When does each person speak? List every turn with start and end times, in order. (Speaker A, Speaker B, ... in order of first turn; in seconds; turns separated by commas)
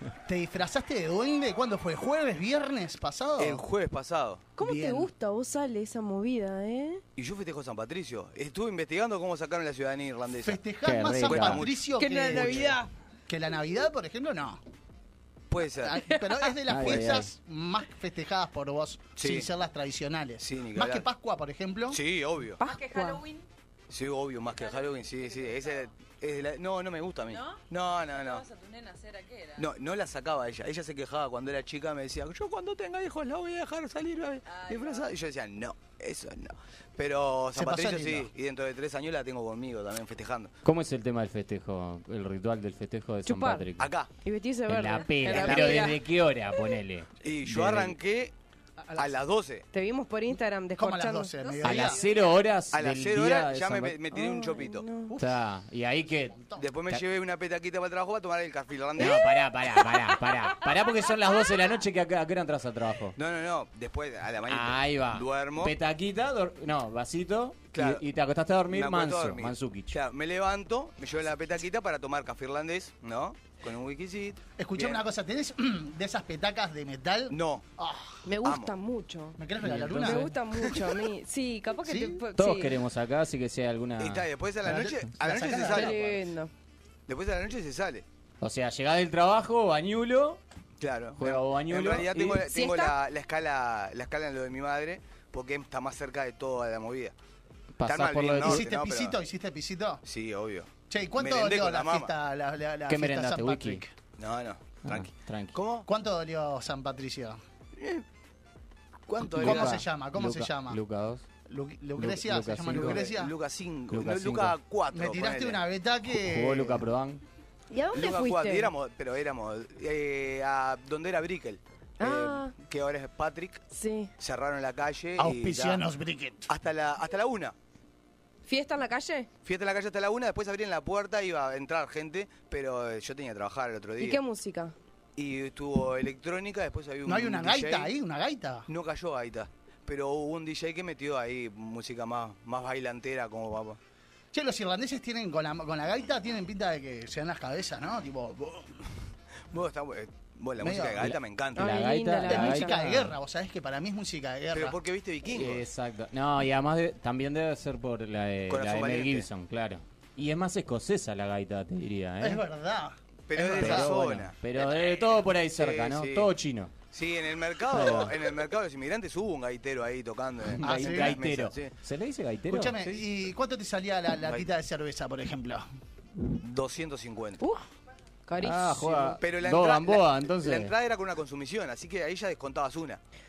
Speaker A: 0.2-3.6, Speaker B: 3.4-4.5, Speaker C: 4.6-7.0, Speaker A: 4.6-5.1, Speaker B: 7.2-10.6, Speaker A: 10.4-12.8, Speaker D: 10.8-11.6, Speaker B: 11.2-11.8, Speaker C: 12.0-12.9, Speaker B: 12.3-12.7, Speaker A: 13.3-14.6, Speaker B: 15.5-16.0, Speaker A: 15.6-22.0, Speaker D: 16.7-17.3, Speaker B: 19.2-19.5, Speaker B: 20.4-21.0, Speaker B: 21.9-22.6, Speaker C: 22.6-23.2, Speaker E: 22.6-23.4, Speaker B: 23.9-28.4, Speaker E: 24.5-25.9, Speaker E: 27.2-29.7, Speaker B: 29.6-40.5, Speaker E: 34.5-35.1, Speaker A: 37.5-38.3, Speaker D: 40.6-43.9, Speaker C: 43.2-46.0, Speaker B: 43.8-44.1, Speaker D: 44.7-48.0, Speaker B: 45.2-46.0, Speaker B: 47.2-48.3, Speaker A: 48.8-49.1, Speaker B: 49.0-49.6, Speaker C: 49.7-51.6, Speaker A: 50.8-52.0, Speaker D: 51.6-54.0, Speaker B: 52.7-54.9, Speaker C: 54.1-55.1, Speaker A: 55.1-55.4, Speaker D: 55.2-57.0, Speaker A: 56.4-56.6, Speaker B: 56.6-59.4, Speaker D: 59.0-63.1, Speaker B: 63.1-65.7, Speaker D: 64.5-70.0, Speaker B: 67.7-68.0, Speaker B: 68.7-75.0, Speaker A: 74.6-78.2, Speaker B: 77.3-77.6, Speaker C: 78.2-79.4, Speaker B: 78.4-78.7, Speaker A: 79.4-81.0, Speaker D: 79.6-80.3, Speaker C: 80.0-82.8, Speaker A: 81.8-82.2, Speaker D: 82.4-84.2, Speaker B: 84.0-86.2, Speaker A: 84.6-86.0, Speaker C: 85.7-86.5, Speaker B: 87.1-88.0, Speaker D: 88.4-90.4, Speaker B: 90.8-97.1, Speaker D: 91.2-92.4, Speaker C: 92.5-93.0, Speaker D: 97.8-98.6, Speaker B: 97.8-99.2, Speaker A: 98.4-100.0, Speaker B: 100.0-102.1, Speaker A: 100.9-103.9, Speaker D: 102.9-103.8, Speaker B: 104.2-105.9, Speaker D: 104.9-105.6, Speaker A: 105.9-107.4, Speaker B: 107.8-108.0, Speaker B: 109.1-109.8, Speaker D: 109.2-111.2, Speaker A: 109.3-110.8, Speaker A: 111.5-113.3, Speaker D: 112.0-113.0, Speaker B: 112.7-115.6, Speaker D: 113.9-114.5, Speaker A: 114.9-116.9, Speaker D: 116.2-117.2, Speaker C: 117.7-118.7, Speaker B: 117.9-123.6, Speaker C: 122.0-122.5, Speaker C: 123.7-124.1, Speaker B: 124.2-125.8, Speaker A: 125.2-126.5, Speaker B: 126.5-127.5, Speaker C: 128.4-129.3, Speaker B: 129.4-134.2, Speaker C: 134.0-134.8, Speaker B: 135.2-137.9, Speaker A: 137.0-138.7, Speaker B: 138.7-143.8, Speaker A: 144.3-148.8, Speaker B: 149.5-151.8, Speaker A: 150.6-151.1, Speaker D: 151.0-153.1, Speaker C: 151.6-152.8, Speaker A: 152.3-154.8, Speaker B: 154.5-155.6, Speaker D: 155.3-162.4, Speaker B: 158.5-159.2, Speaker A: 162.2-164.0, Speaker B: 163.3-166.3, Speaker D: 163.4-166.7, Speaker B: 166.9-171.7, Speaker D: 167.7-168.2, Speaker D: 170.4-172.9, Speaker A: 170.6-171.2, Speaker A: 172.5-175.7, Speaker B: 176.2-177.4, Speaker C: 178.3-179.2, Speaker D: 178.4-180.7, Speaker B: 179.2-183.0